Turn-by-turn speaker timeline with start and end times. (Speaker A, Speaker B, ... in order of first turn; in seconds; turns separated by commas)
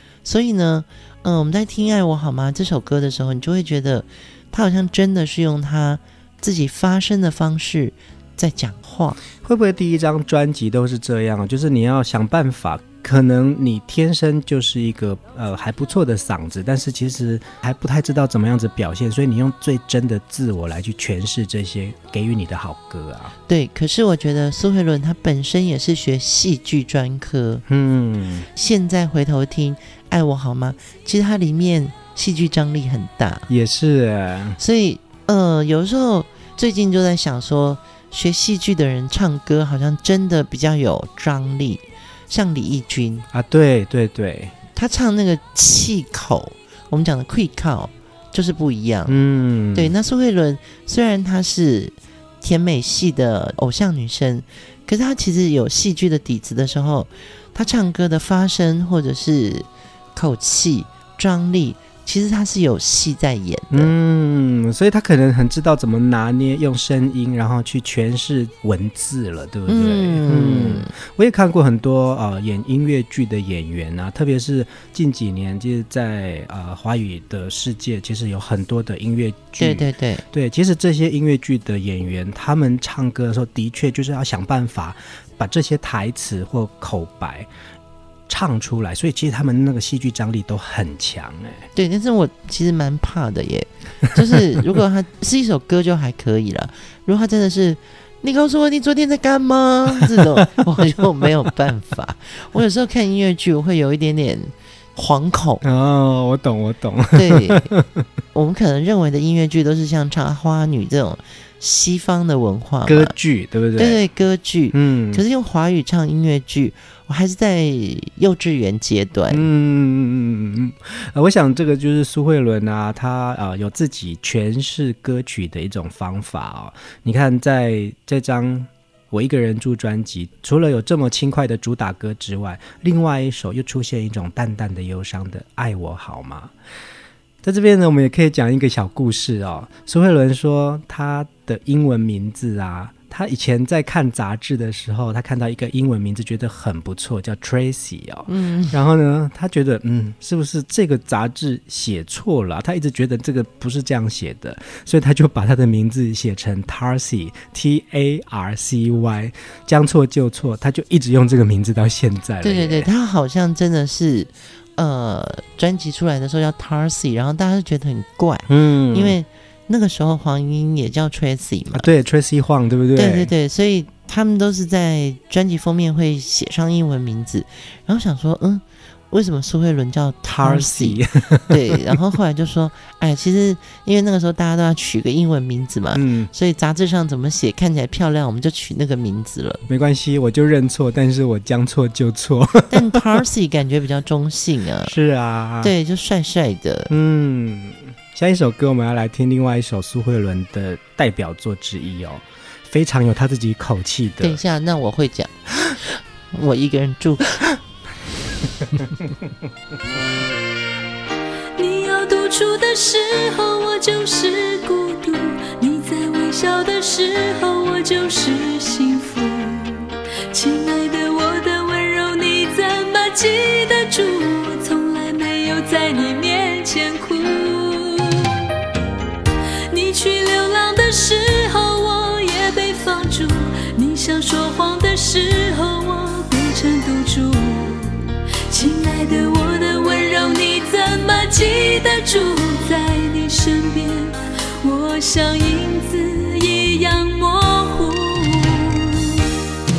Speaker A: 0.2-9.2, Speaker B: 9.4-23.3, Speaker A: 23.5-27.6, Speaker B: 27.7-28.5, Speaker A: 28.6-33.5, Speaker B: 33.5-34.6, Speaker A: 34.6-43.2, Speaker B: 43.3-44.5, Speaker A: 44.8-49.2, Speaker B: 49.1-49.9, Speaker A: 49.7-63.9, Speaker B: 63.7-87.5, Speaker A: 69.7-70.9, Speaker A: 79.6-80.2, Speaker B: 88.3-91.7, Speaker A: 91.8-105.6, Speaker B: 105.6-108.1, Speaker A: 107.1-107.7, Speaker A: 108.3-113.1, Speaker B: 112.9-114.0, Speaker A: 113.8-119.5, Speaker B: 114.7-115.2, Speaker B: 119.3-136.5, Speaker B: 137.4-162.9, Speaker A: 148.3-148.8, Speaker A: 162.4-171.9, Speaker B: 168.5-169.2, Speaker B: 171.7-173.3, Speaker A: 173.0-189.7, Speaker B: 180.3-182.1, Speaker B: 185.9-186.3, Speaker B: 189.7-193.1, Speaker A: 192.7-194.9, Speaker B: 194.8-195.7, Speaker A: 195.6-196.9, Speaker B: 196.9-204.4, Speaker A: 204.2-207.6, Speaker C: 211.6-228.5, Speaker C: 229.7-249.3